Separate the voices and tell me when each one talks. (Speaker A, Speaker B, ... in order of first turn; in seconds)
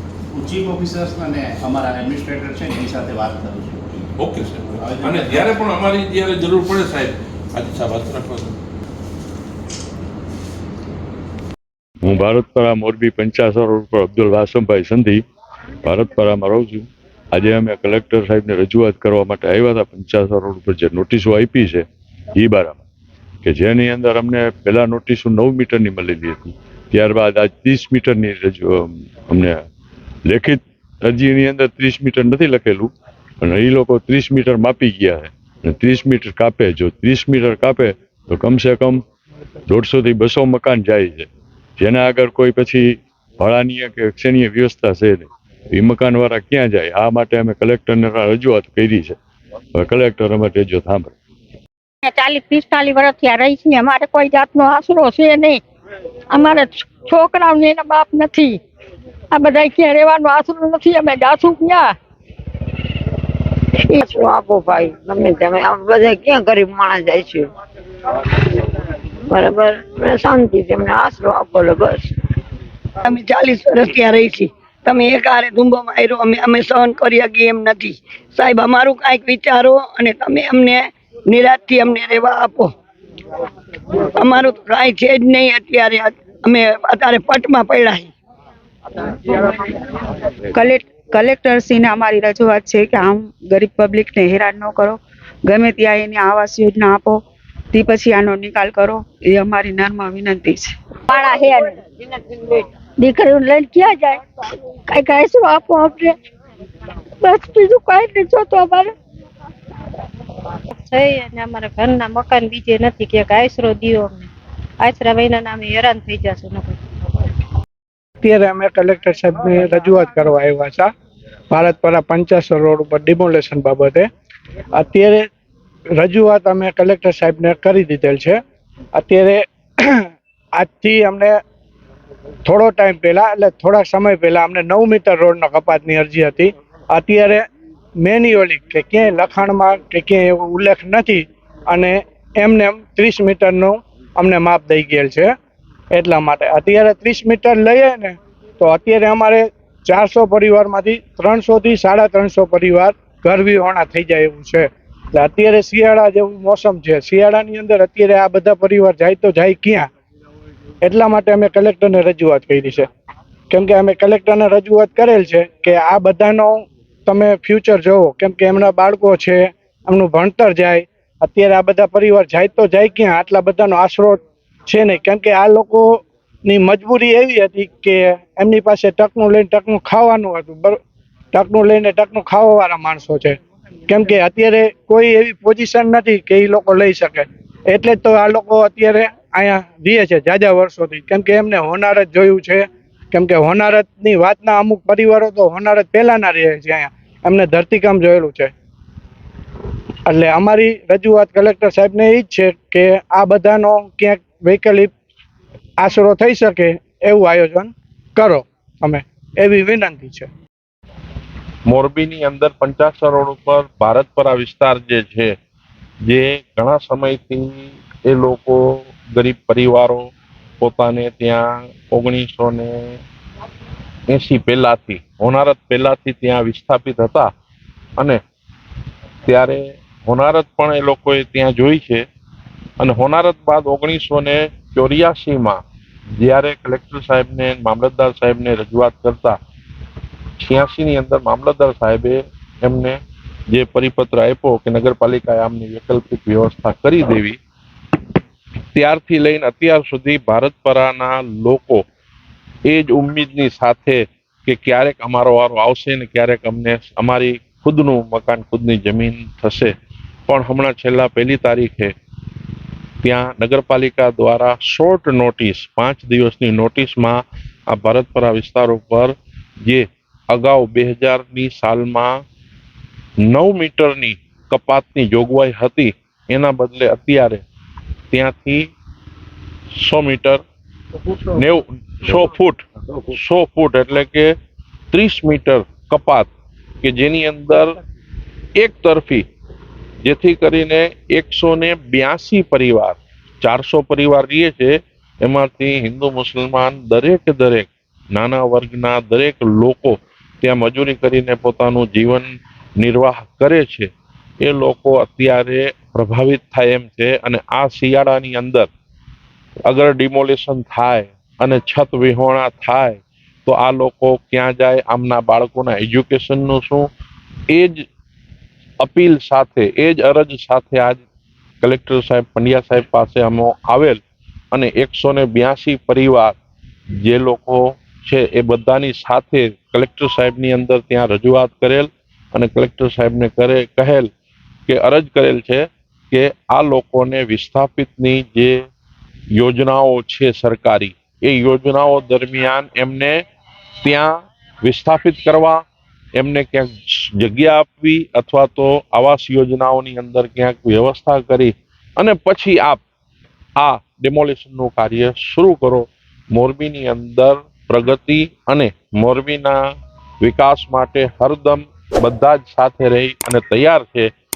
Speaker A: 0.3-3.8, 4.7-5.6
Speaker B: 4.1-8.6, 211.7-215.3, 216.1-223.0, 224.1-227.3, 229.3-232.1, 232.8-235.6, 236.2-239.4, 240.4-243.0, 243.5-247.4, 248.7-251.8, 252.7-259.7, 260.3-261.9, 263.0-269.1, 269.6-272.2, 273.2-277.4, 278.1-278.7, 279.8-280.4, 281.3-284.3, 284.9-286.3, 286.8-287.7, 288.6-289.3, 290.0-302.3, 302.8-303.9, 304.4-308.7, 309.7-316.9, 317.5-317.8, 318.8-321.0, 321.6-324.0, 324.5-326.4, 327.0-334.1, 334.7-338.6, 339.3-343.2, 343.8-345.6, 346.1-352.8, 353.6-359.6, 360.2-364.1
Speaker C: 12.0-15.2, 15.8-22.8, 23.4-29.6, 30.2-39.0, 39.7-49.2, 49.7-51.1
Speaker D: 52.0-52.7, 53.7-54.0, 56.3-57.0, 63.9-67.5, 69.3-72.1, 101.1-102.7
Speaker E: 52.6-55.6, 56.4-58.6, 59.3-62.0, 103.0-104.2, 104.9-106.2, 107.2-108.9
Speaker F: 73.0-82.7, 84.0-88.1
Speaker G: 90.5-97.2, 97.7-100.7
Speaker H: 110.8-114.3, 114.8-116.8
Speaker I: 118.2-120.9, 121.5-124.1, 124.7-125.3, 126.0-128.4, 128.9-131.3, 132.4-137.5, 138.0-145.3, 145.9-159.9, 160.8-162.9, 163.5-180.8, 181.3-183.4, 183.9-198.5, 200.1-204.9, 205.8-210.3